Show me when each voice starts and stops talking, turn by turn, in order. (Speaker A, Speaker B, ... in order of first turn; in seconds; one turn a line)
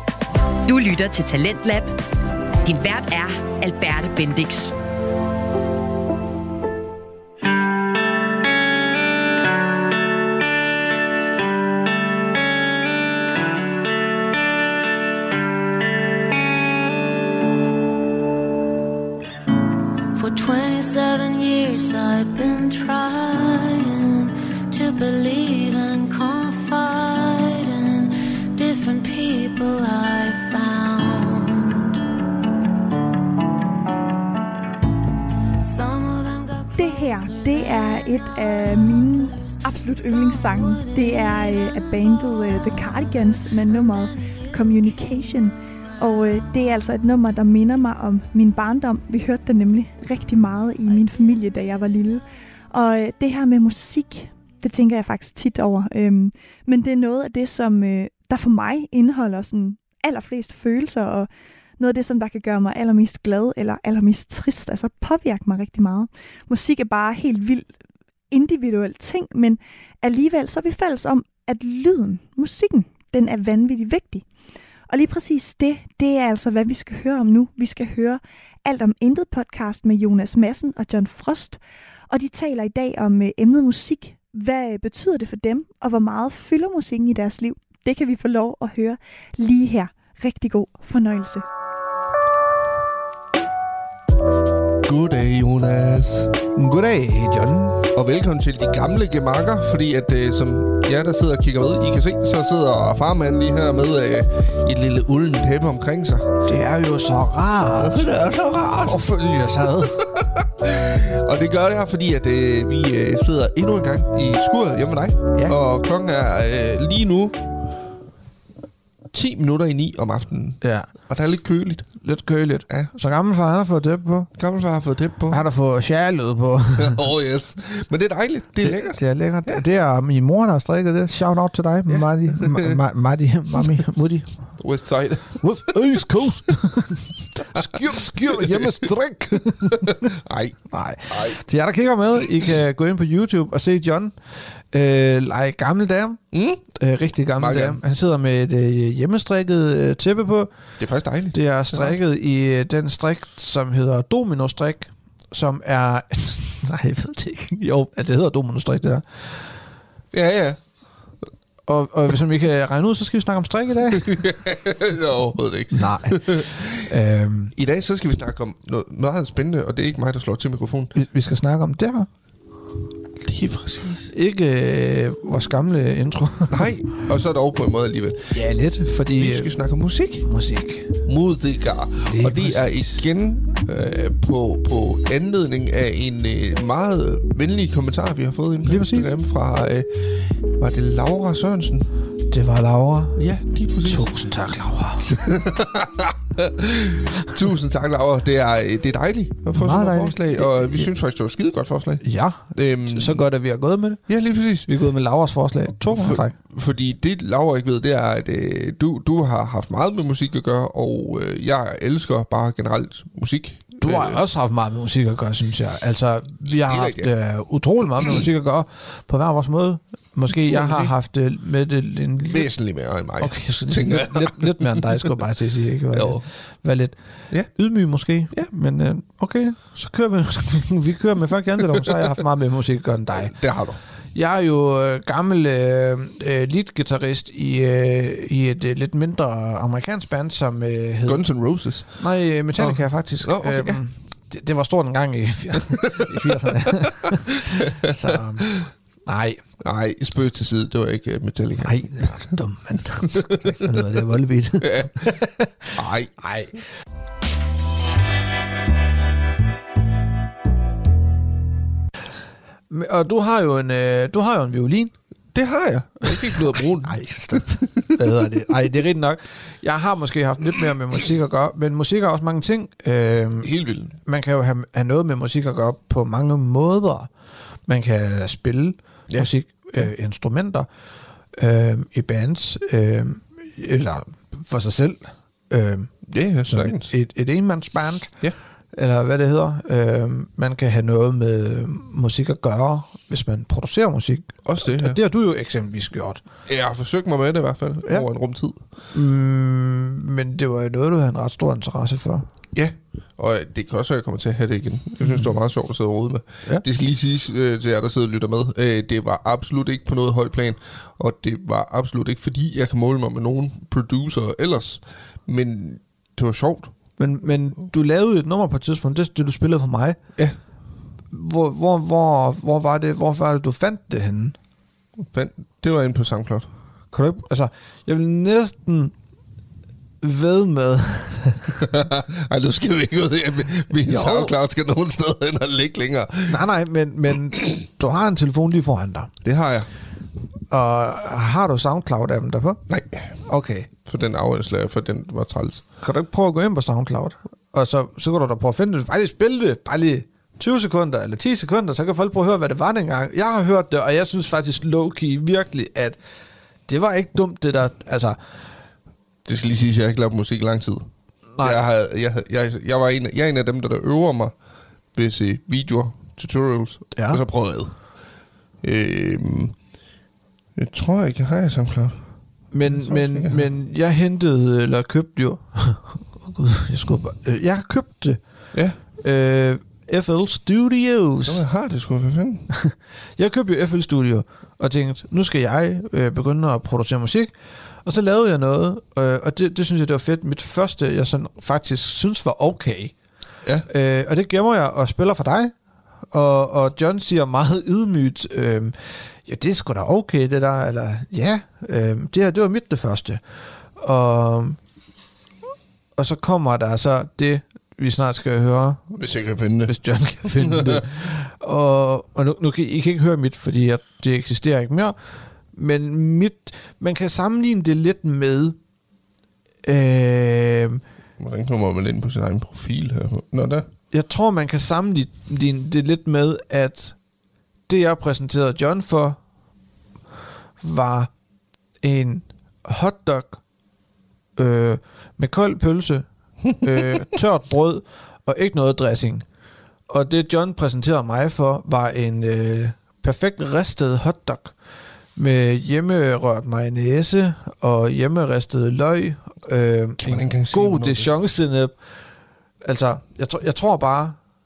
Speaker A: 0.6-1.9
Speaker A: 2.6-4.7
Speaker B: 20.1-32.0
Speaker B: 35.6-41.3
Speaker C: 36.7-61.3
Speaker C: 61.8-67.7
Speaker C: 68.3-74.2
Speaker C: 74.9-81.6
Speaker C: 82.1-91.4
Speaker D: 94.8-96.3
Speaker E: 96.5-97.9
Speaker D: 97.9-106.3
Speaker E: 106.4-108.0
Speaker D: 107.8-109.0
Speaker E: 108.8-110.1
Speaker D: 110.0-117.4
Speaker D: 119.1-121.9
Speaker E: 120.6-120.9
Speaker E: 122.0-124.3
Speaker D: 124.4-125.4
Speaker E: 125.3-127.0
Speaker D: 126.8-129.6
Speaker E: 128.6-134.4
Speaker D: 131.9-132.8
Speaker D: 134.6-135.9
Speaker E: 135.4-140.1
Speaker D: 137.4-137.7
Speaker D: 138.3-138.7
Speaker D: 139.7-140.6
Speaker E: 140.7-146.2
Speaker D: 141.1-141.4
Speaker D: 146.3-146.6
Speaker E: 146.7-150.5
Speaker D: 147.4-147.8
Speaker D: 150.8-152.0
Speaker E: 151.3-159.5
Speaker D: 160.1-160.6
Speaker E: 161.7-164.2
Speaker D: 163.9-166.9
Speaker E: 165.7-167.5
Speaker D: 167.6-170.9
Speaker E: 170.9-172.1
Speaker D: 173.2-174.1
Speaker E: 174.1-176.7
Speaker D: 176.5-178.3
Speaker E: 178.3-179.5
Speaker D: 179.2-180.3
Speaker E: 180.2-181.0
Speaker D: 181.0-191.9
Speaker E: 182.0-183.0
Speaker E: 188.6-189.1
Speaker E: 192.3-193.2
Speaker D: 193.2-194.3
Speaker E: 193.8-195.5
Speaker D: 195.1-203.2
Speaker E: 199.5-200.9
Speaker E: 202.0-204.0
Speaker D: 204.1-204.7
Speaker E: 204.7-206.3
Speaker D: 205.9-214.2
Speaker E: 213.8-222.5
Speaker D: 216.6-217.1
Speaker D: 220.3-220.9
Speaker D: 222.3-225.0
Speaker E: 223.2-226.9
Speaker D: 225.9-226.2
Speaker E: 227.5-233.3
Speaker D: 233.2-233.8
Speaker E: 234.1-241.2
Speaker D: 241.1-242.0
Speaker E: 242.0-248.5
Speaker D: 242.6-243.8
Speaker D: 245.8-248.7
Speaker E: 249.1-249.4
Speaker D: 249.6-251.8
Speaker E: 251.6-256.5
Speaker D: 254.6-255.2
Speaker D: 255.7-256.3
Speaker E: 262.7-264.9
Speaker D: 265.3-268.3
Speaker E: 266.0-273.5
Speaker D: 273.4-273.9
Speaker E: 274.0-277.1
Speaker E: 277.7-280.7
Speaker E: 281.3-285.9
Speaker D: 286.1-286.9
Speaker E: 286.5-288.2
Speaker E: 288.7-296.2
Speaker D: 294.4-295.0
Speaker D: 296.5-298.6
Speaker E: 298.9-302.3
Speaker D: 302.5-316.7
Speaker E: 305.0-305.3
Speaker E: 317.0-320.0
Speaker E: 321.1-324.3
Speaker D: 325.1-326.5
Speaker E: 326.9-328.9
Speaker E: 330.0-331.7
Speaker D: 331.6-336.4
Speaker E: 333.8-334.3
Speaker E: 336.3-339.1
Speaker D: 339.2-339.7
Speaker E: 340.5-342.6
Speaker D: 342.7-343.2
Speaker E: 343.2-343.7
Speaker D: 343.8-345.6
Speaker E: 345.8-356.0
Speaker E: 356.7-358.2
Speaker D: 359.2-360.9
Speaker E: 361.4-361.6
Speaker D: 361.4-364.3
Speaker D: 364.9-367.7
Speaker E: 366.9-367.2
Speaker D: 368.6-369.5
Speaker D: 370.6-372.0
Speaker E: 372.5-378.2
Speaker D: 372.6-373.4
Speaker E: 379.0-381.4
Speaker D: 381.2-382.5
Speaker E: 382.5-387.3
Speaker E: 387.8-392.9
Speaker E: 393.6-395.5
Speaker E: 396.1-403.2
Speaker E: 403.8-404.6
Speaker E: 405.9-409.0
Speaker D: 409.0-410.9
Speaker E: 409.6-414.9
Speaker E: 415.5-418.6
Speaker E: 419.6-420.8
Speaker D: 421.2-423.7
Speaker E: 423.9-427.0
Speaker E: 427.7-429.2
Speaker E: 430.6-431.1
Speaker E: 431.8-433.4
Speaker E: 434.4-436.1
Speaker E: 436.6-439.2
Speaker E: 439.9-444.5
Speaker E: 445.1-451.7
Speaker D: 450.0-451.1
Speaker E: 452.6-454.2